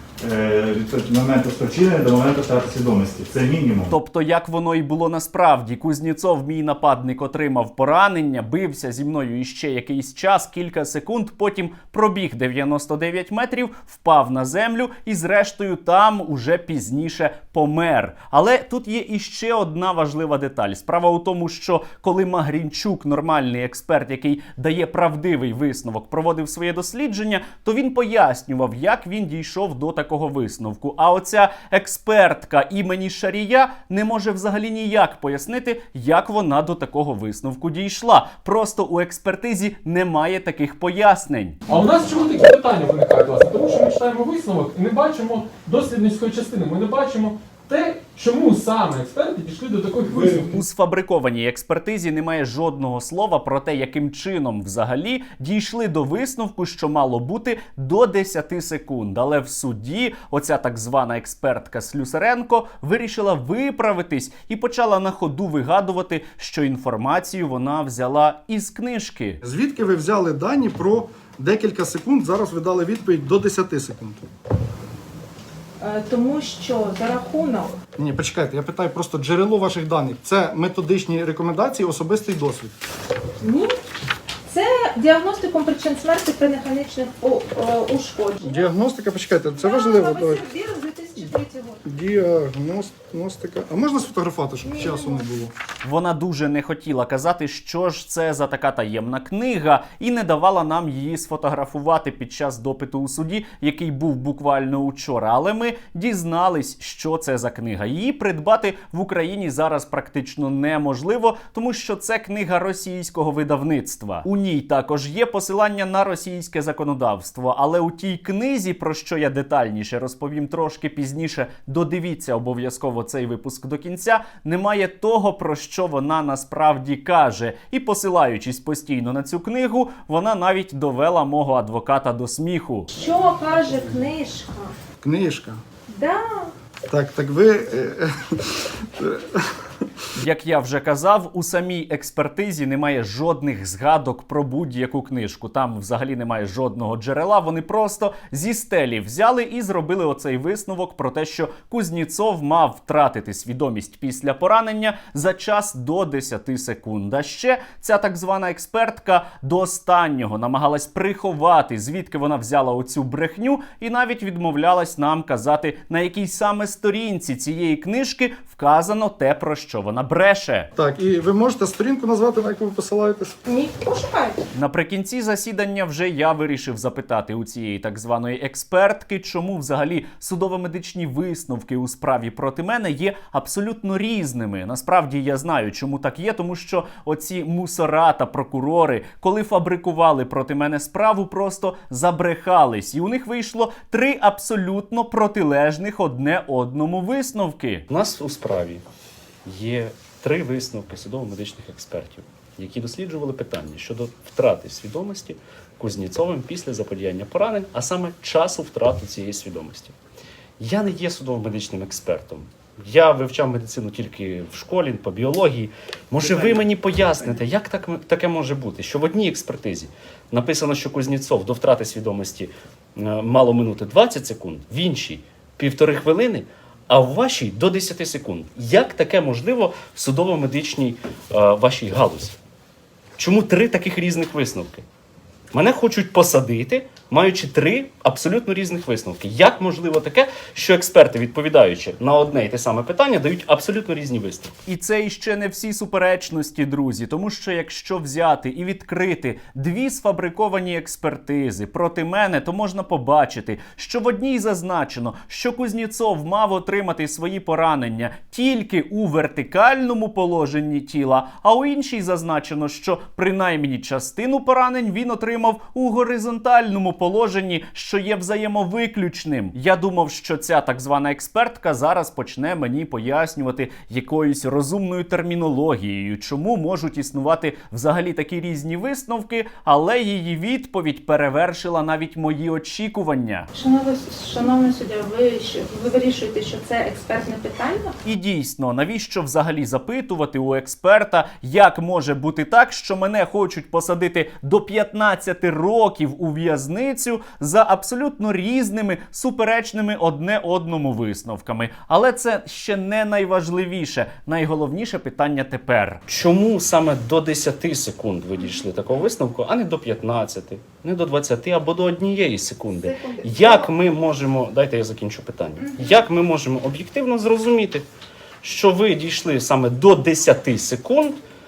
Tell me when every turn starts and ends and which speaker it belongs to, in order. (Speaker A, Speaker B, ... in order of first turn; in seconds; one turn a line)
Speaker A: 0.2-3.9
Speaker B: 3.9-41.6
Speaker C: 41.7-50.6
Speaker B: 50.1-69.4
Speaker D: 69.4-74.2
Speaker E: 75.8-77.8
Speaker D: 78.0-82.8
Speaker E: 83.4-83.8
Speaker E: 84.5-88.7
Speaker D: 88.4-90.4
Speaker E: 89.6-91.8
Speaker D: 91.9-95.5
Speaker E: 94.6-95.3
Speaker B: 95.8-132.9
Speaker E: 132.9-134.8
Speaker D: 135.0-135.6
Speaker E: 135.9-136.5
Speaker D: 136.9-139.5
Speaker B: 140.2-170.7
Speaker D: 170.8-173.4
Speaker E: 173.5-174.5
Speaker B: 174.6-197.9
Speaker F: 197.9-198.8
Speaker F: 199.5-209.9
Speaker F: 210.6-232.4
Speaker F: 233.2-234.8
Speaker F: 235.5-244.5
Speaker B: 244.7-283.5
Speaker E: 283.5-288.0
Speaker B: 288.1-306.0
Speaker F: 306.1-317.9
Speaker E: 312.8-313.7
Speaker E: 315.6-315.9
Speaker F: 318.4-321.2